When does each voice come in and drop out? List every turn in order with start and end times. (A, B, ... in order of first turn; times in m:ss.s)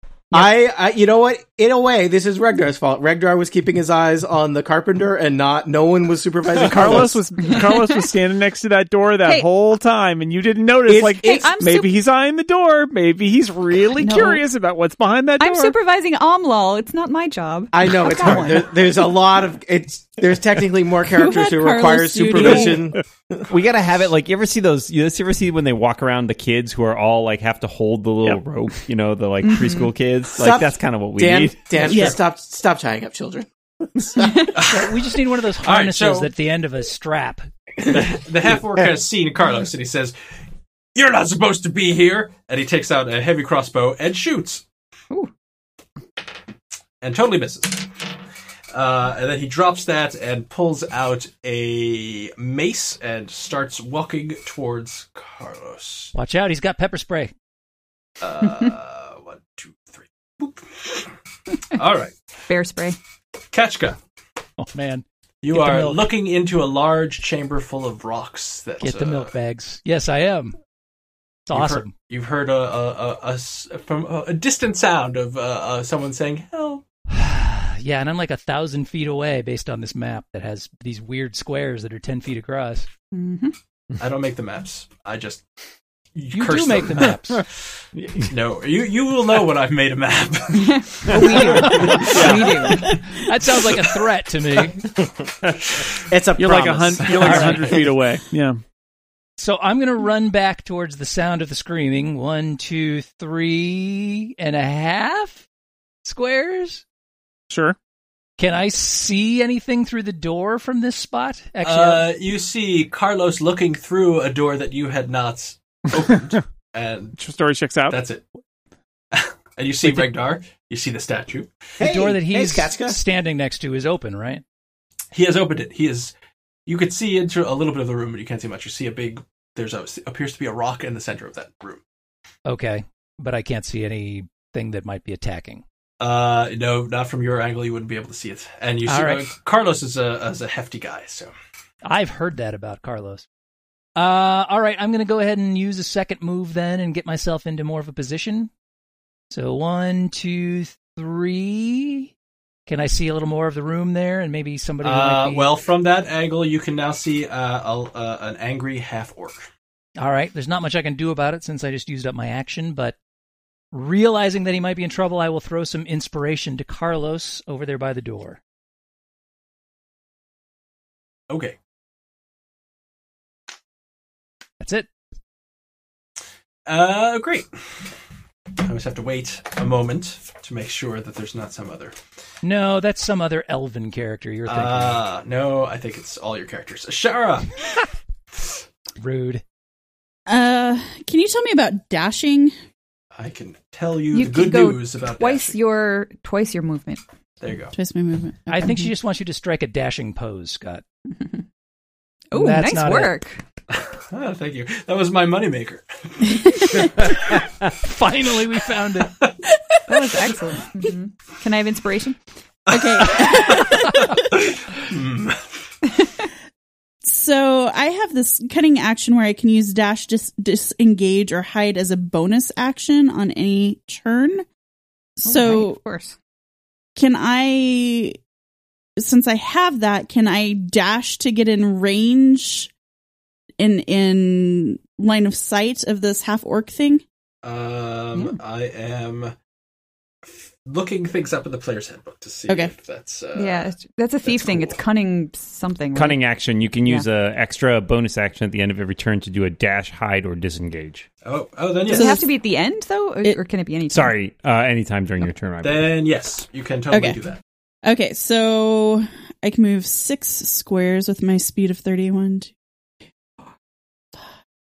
0:00.3-0:07.3 A
0:06.6-0:15.7 B
0:07.4-0:08.1 C
0:09.2-0:09.5 C
0:10.8-0:11.5 A
0:11.2-0:11.9 C
0:13.9-0:14.4 C
0:15.4-0:18.8 C
0:17.7-0:23.5 A
0:21.1-0:22.9 D
0:23.5-0:31.8 E
0:29.4-0:29.9 C
0:30.4-0:34.5 A
0:31.8-0:32.2 D
0:31.9-0:32.2 F
0:34.2-0:34.6 C
0:34.5-0:34.9 F
0:34.6-0:37.5 G
0:35.6-0:36.3 F
0:37.9-0:40.1 F
0:40.9-0:44.6 F
0:47.0-0:48.0 F
0:48.7-0:56.1 F
0:56.1-0:57.3 G
0:58.2-1:01.1 F
1:01.7-1:02.2 F
1:02.5-1:03.0 C
1:03.5-1:04.0 F
1:04.6-1:06.1 G
1:05.4-1:09.3 F
1:08.8-1:10.6 G
1:11.5-1:11.9 G
1:11.5-1:16.8 F
1:17.1-1:22.9 G
1:23.1-1:23.5 C
1:24.0-1:25.4 F
1:26.1-1:27.4 F
1:26.3-1:27.4 G
1:28.0-1:28.3 E
1:28.2-1:32.9 F
1:30.5-1:33.1 C
1:31.4-1:34.9 G
1:32.1-1:32.4 E
1:36.1-1:37.9 A
1:36.4-1:38.6 B
1:37.2-1:37.7 G
1:39.4-1:45.4 G
1:46.0-1:46.8 G
1:47.5-1:47.8 B
1:48.4-1:52.1 G
1:51.6-1:57.2 F
1:57.2-1:58.0 B
1:57.9-1:58.2 F
1:59.1-2:01.5 F
2:01.8-2:03.0 A
2:01.8-2:04.4 G
2:05.1-2:06.1 F
2:06.7-2:11.8 F
2:12.4-2:15.6 G
2:16.0-2:21.3 F
2:18.8-2:19.2 G
2:21.8-2:23.2 G
2:24.0-2:28.5 G
2:29.3-2:32.1 G
2:32.7-2:35.5 G
2:34.8-2:39.5 F
2:40.0-2:43.0 G
2:43.7-2:48.4 G
2:51.3-2:51.6 F
2:54.6-2:54.9 G
2:56.6-2:57.9 F
2:58.6-3:01.9 F
3:02.4-3:05.0 G
3:04.5-3:07.6 F
3:09.0-3:09.4 G
3:10.3-3:12.6 D
3:13.1-3:15.6 F
3:14.1-3:17.0 C
3:17.4-3:17.8 F
3:17.7-3:18.9 D
3:18.5-3:20.8 G
3:21.1-3:21.4 C
3:22.3-3:23.4 C
3:22.3-3:23.1 G
3:23.7-3:27.4 F
3:27.8-3:29.1 G
3:29.9-3:32.2 C
3:30.1-3:30.4 F
3:32.7-3:35.4 F
3:32.7-3:34.2 D
3:36.0-3:36.2 C
3:37.0-3:44.4 D
3:45.2-3:45.8 D
3:45.2-3:46.2 C
3:47.0-3:48.2 D
3:49.0-3:52.7 D
3:53.6-3:57.0 D
3:57.4-3:59.3 F
4:00.2-4:04.8 F
4:02.5-4:02.7 D
4:03.3-4:06.2 C
4:05.9-4:11.1 E
4:11.2-4:12.2 F
4:11.9-4:12.3 D
4:11.9-4:14.1 C
4:13.9-4:15.9 E
4:15.6-4:17.4 F
4:16.9-4:17.2 D
4:17.8-4:22.5 D